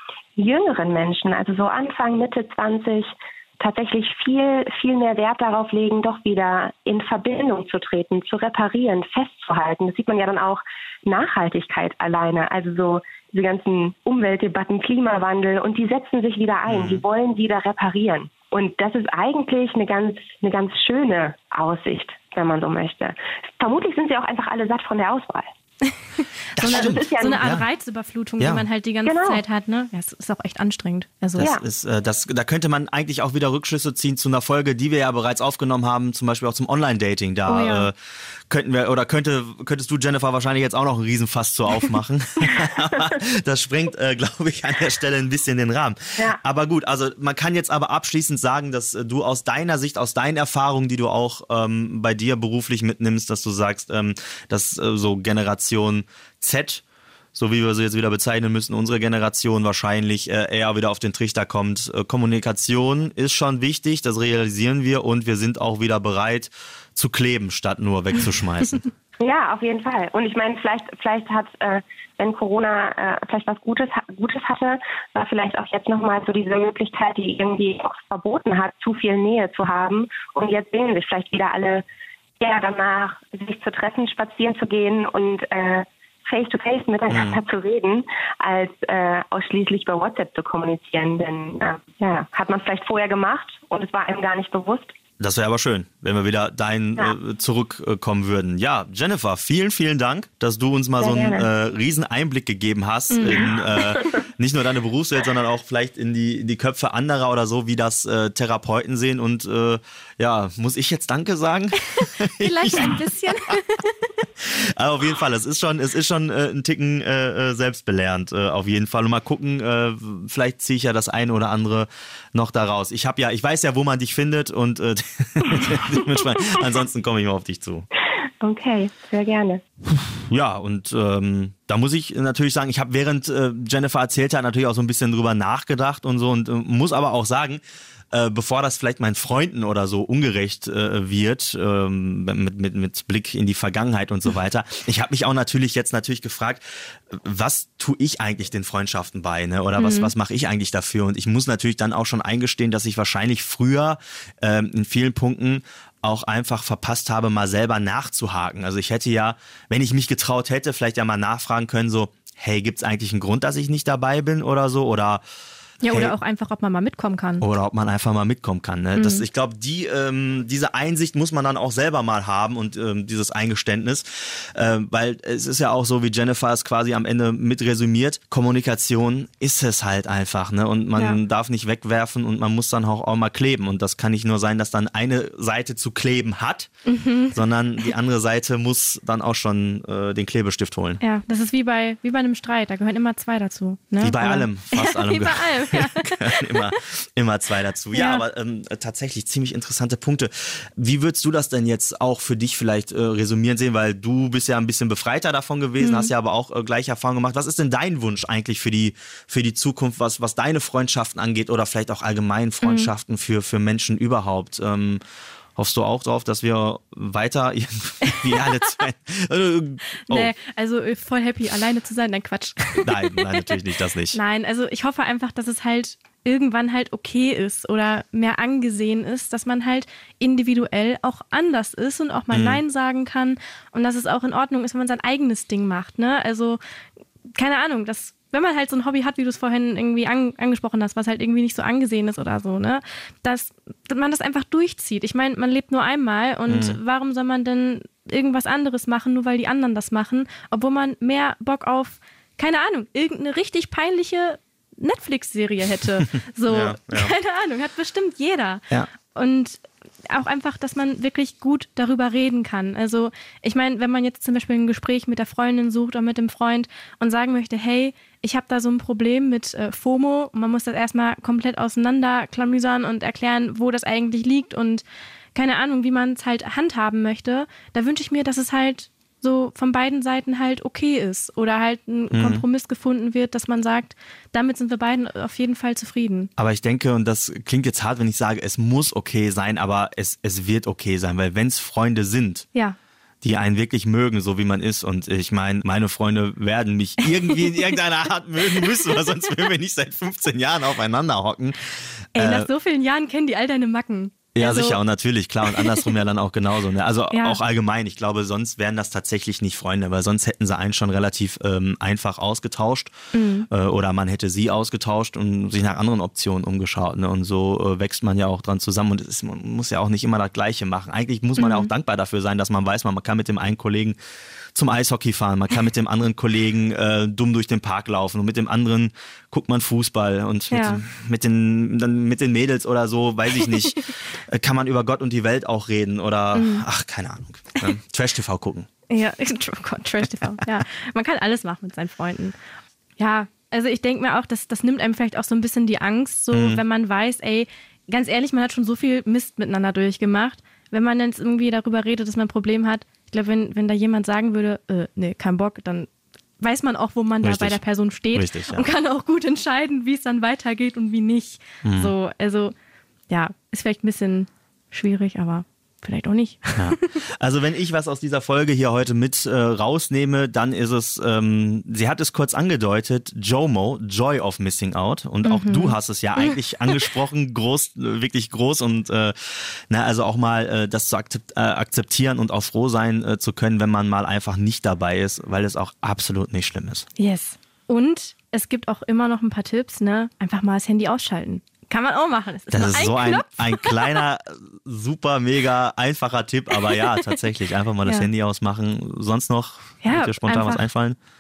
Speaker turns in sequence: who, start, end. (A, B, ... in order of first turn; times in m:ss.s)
0:00.4-0:25.5 A
0:16.7-0:17.0 B
0:26.6-0:27.7 B
0:26.6-0:31.5 C
0:26.6-0:27.5 A
0:28.4-0:28.6 B
0:29.0-0:29.4 A
0:31.4-0:38.0 B
0:31.4-0:31.6 A
0:37.5-0:37.9 C
0:38.5-0:56.8 B
0:57.4-1:08.9 B
1:09.2-1:21.8 A
1:22.4-1:35.0 A
1:27.1-1:27.4 B
1:35.2-1:53.6 B
1:41.0-1:41.5 A
1:43.1-1:43.5 C
1:52.4-1:53.9 C
1:54.4-2:07.9 B
2:08.4-2:09.6 A
2:09.9-2:17.6 B
2:18.1-2:45.2 B
2:29.8-2:30.1 C
2:45.8-2:47.4 C
2:45.9-2:46.2 B
2:47.4-3:06.7 B
2:49.0-2:49.2 C
3:06.9-3:07.4 C
3:07.3-3:11.0 B
3:11.0-3:16.8 C
3:14.0-3:35.0 B
3:17.9-3:18.2 C
3:25.8-3:26.1 C
3:32.6-3:32.9 C
3:35.6-3:40.3 B
3:40.1-3:43.6 C
3:42.8-3:44.2 B
3:44.1-3:56.6 C
3:52.3-3:52.6 B
3:57.4-4:34.8 C
4:06.5-4:06.8 B
4:16.5-4:17.1 B
4:35.4-4:46.3 C
4:42.1-4:42.4 B
4:46.4-4:52.5 B
4:53.2-5:02.5 B
4:57.4-4:57.8 C
5:02.2-5:04.8 C
5:04.4-5:12.9 B
5:05.5-5:06.0 C
5:07.1-5:07.4 C
5:13.1-5:13.5 C
5:13.5-5:24.0 B
5:21.4-5:21.7 C
5:24.6-5:38.7 B
5:30.5-5:30.8 C
5:36.4-5:36.6 C
5:38.9-5:42.4 C
5:43.0-5:55.9 C
5:46.3-5:46.6 B
5:56.4-6:02.5 C
5:57.2-5:57.6 B
5:58.1-5:58.7 B
6:01.6-6:01.9 B
6:03.1-6:07.0 C
6:06.6-6:26.9 B
6:15.2-6:16.8 C
6:27.0-6:34.0 C
6:32.5-6:41.0 B
6:36.6-6:37.2 C
6:39.8-6:40.7 C